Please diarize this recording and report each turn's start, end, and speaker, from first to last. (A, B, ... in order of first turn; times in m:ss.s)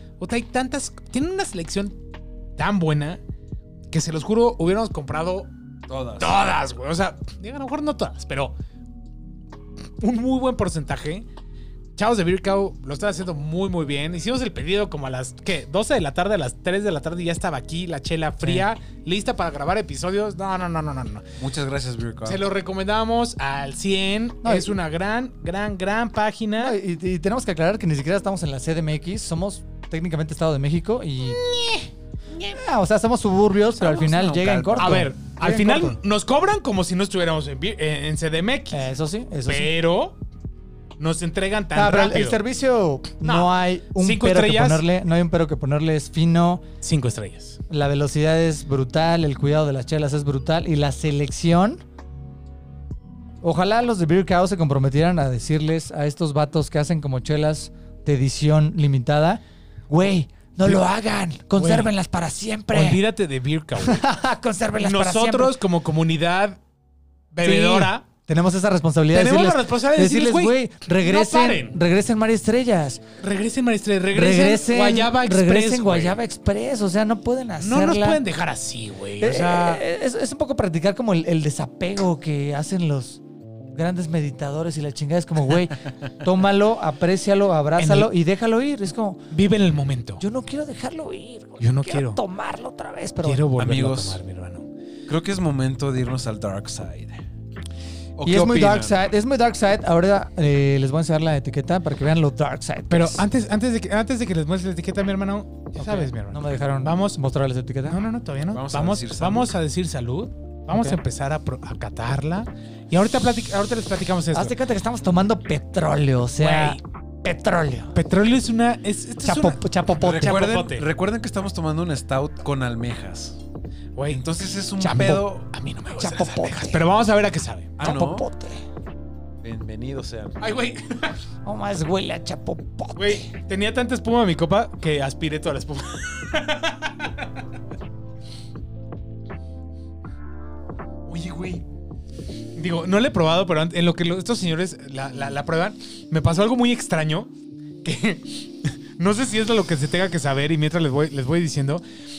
0:00.2-0:02.0 A
0:02.6-0:03.2 A
0:03.9-0:05.5 A
0:05.9-0:06.4 B
0:06.2-0:08.5 A
0:10.0-0:11.2 A
0:12.0-0:21.3 A
0:21.4-0:22.4 B
0:22.2-0:26.8 A
0:24.4-0:24.7 C
0:26.6-0:31.4 C
0:31.4-0:32.6 A
0:32.5-0:36.0 C
0:33.8-0:35.0 B
0:34.8-0:38.9 A
0:38.7-0:39.7 C
0:39.4-0:40.2 A
0:41.0-0:42.4 A
0:41.7-0:46.6 C
0:43.2-0:44.8 A
0:46.8-0:47.6 A
0:47.7-0:51.8 C
0:53.4-1:03.0 C
1:01.6-1:01.9 A
1:02.7-1:04.0 A
1:03.8-1:05.6 C
1:04.8-1:06.6 A
1:07.3-1:08.0 A
1:07.4-1:13.0 C
1:09.1-1:11.8 A
1:13.2-1:16.2 A
1:14.1-1:18.2 C
1:17.6-1:19.8 A
1:19.2-1:23.2 C
1:23.7-1:29.2 C
1:27.8-1:28.1 A
1:29.3-1:30.2 A
1:30.2-1:33.4 C
1:31.6-1:32.2 A
1:33.2-1:34.7 A
1:33.6-1:34.2 B
1:35.1-1:37.2 B
1:38.2-1:39.0 B
1:38.2-1:43.2 C
1:42.9-1:47.2 A
1:45.8-1:48.0 C
1:47.8-1:54.6 A
1:48.5-1:49.6 B
1:50.7-1:51.0 C
1:54.3-1:58.0 C
1:56.4-1:56.8 A
1:57.9-2:00.8 A
1:59.2-2:00.4 C
2:00.0-2:03.4 B
2:04.0-2:04.2 A
2:04.1-2:05.5 B
2:04.8-2:07.8 A
2:06.0-2:06.8 C
2:07.8-2:08.2 B
2:07.8-2:08.6 C
2:09.4-2:10.4 B
2:10.4-2:11.2 A
2:11.4-2:13.2 C
2:13.0-2:17.3 A
2:21.1-2:21.6 A
2:22.5-2:27.3 A
2:27.8-2:31.8 A